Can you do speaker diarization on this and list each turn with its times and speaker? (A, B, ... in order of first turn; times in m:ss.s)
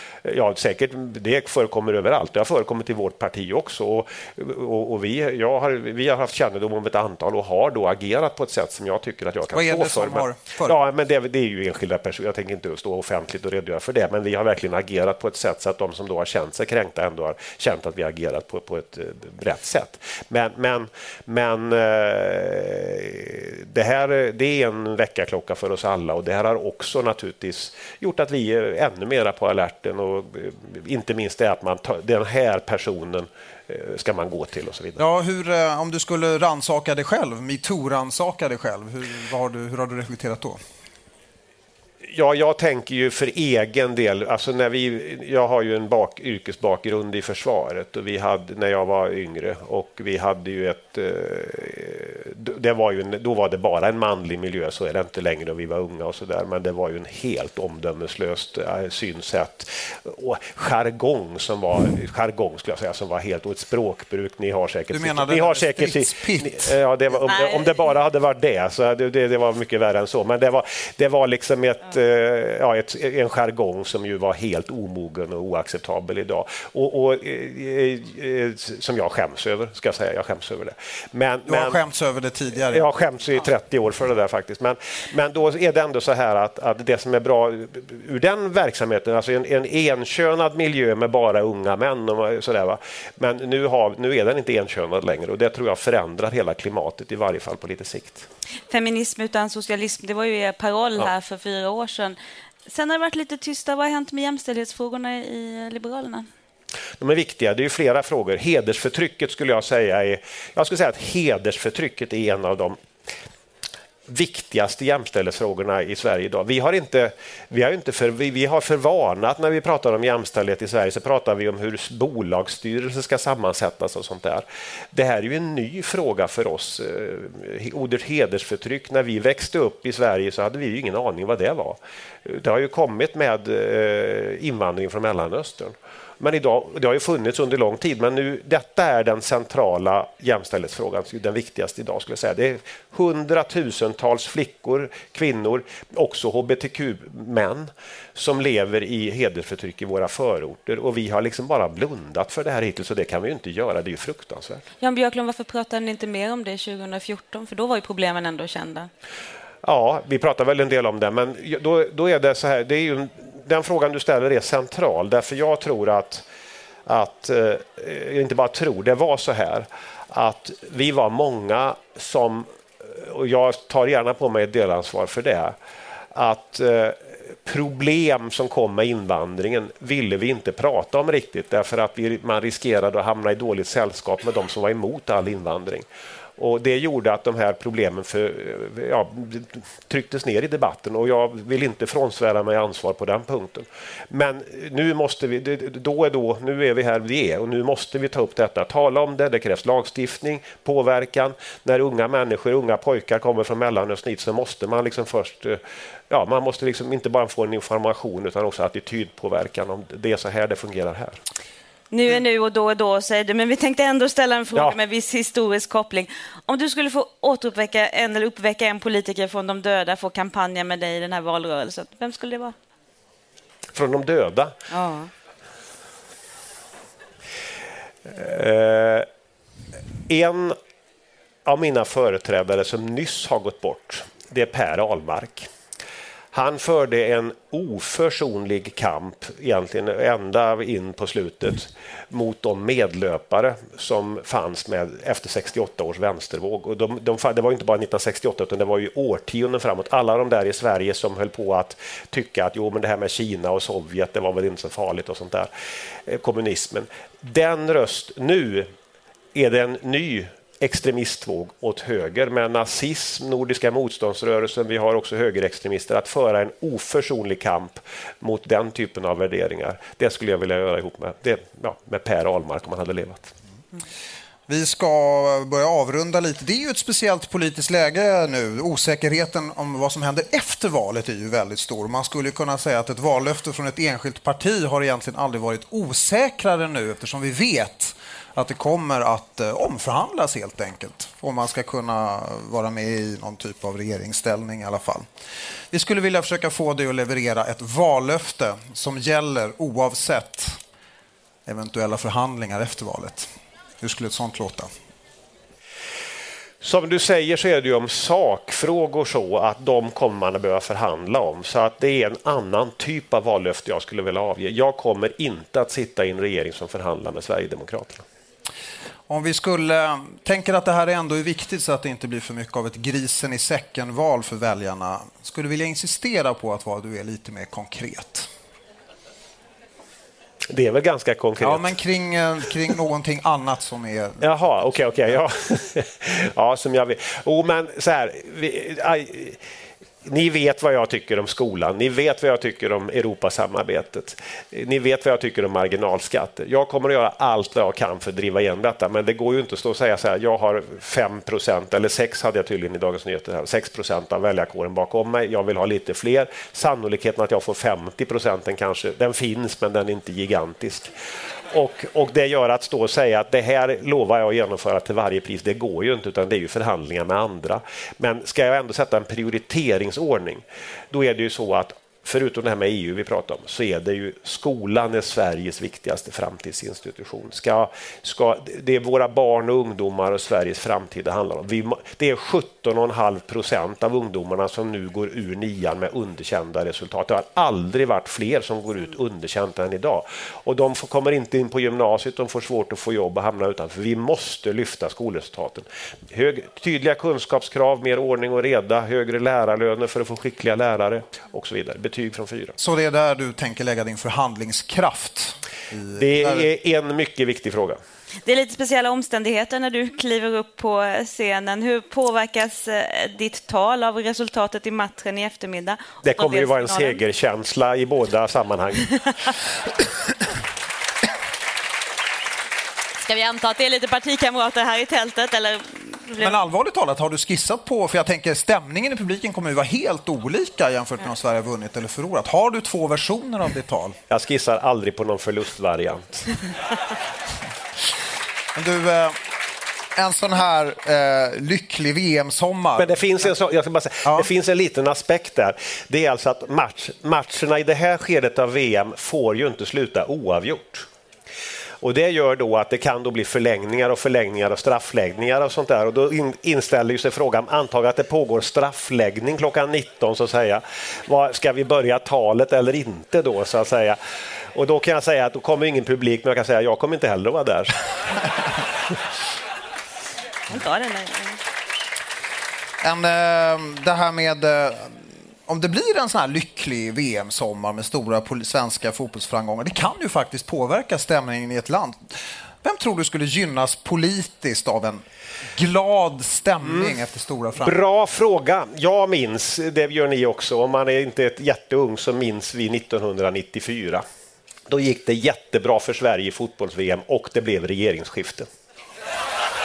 0:00.2-0:35.0 A
0:09.5-0:10.7 B
0:35.0-0:40.6 B
0:42.1-1:21.8 A
1:04.9-1:06.8 B
1:07.3-1:07.8 C
1:21.4-1:22.9 B
1:22.7-1:38.3 A
1:38.7-1:46.3 C
1:47.0-1:52.8 A
1:54.1-2:34.6 A
2:34.8-2:38.9 C
2:39.6-2:46.2 A
2:46.8-2:55.5 A
2:56.1-3:05.8 A
3:06.4-3:31.2 A
3:31.9-3:42.5 C
3:43.7-3:44.6 A
3:44.7-3:45.1 C
3:48.0-3:49.1 A
3:50.1-3:50.6 A
3:51.4-3:55.5 A
3:56.3-4:15.5 A
4:16.0-4:18.7 A
4:19.3-4:33.3 A
4:34.5-4:55.0 B
4:55.7-5:00.6 B
5:01.4-5:03.3 B
5:03.8-5:04.7 B
5:06.6-5:18.0 A
5:19.1-5:28.3 B
5:30.5-5:31.7 A
5:31.4-5:34.2 B
5:34.2-5:39.4 A
5:40.0-6:00.9 A
6:01.5-6:42.6 A
6:42.6-6:46.5 B
6:45.9-6:47.8 A
6:48.2-6:57.0 C
6:56.0-6:59.1 A
7:03.0-7:06.4 C
7:06.2-7:14.0 B
7:14.1-7:16.4 A
7:18.5-7:19.2 B
7:20.0-7:23.3 B
7:22.8-7:30.9 A
7:31.8-7:48.5 A
7:50.5-7:51.4 C
7:52.8-8:07.8 B
8:07.6-8:14.0 A
8:14.7-8:18.5 A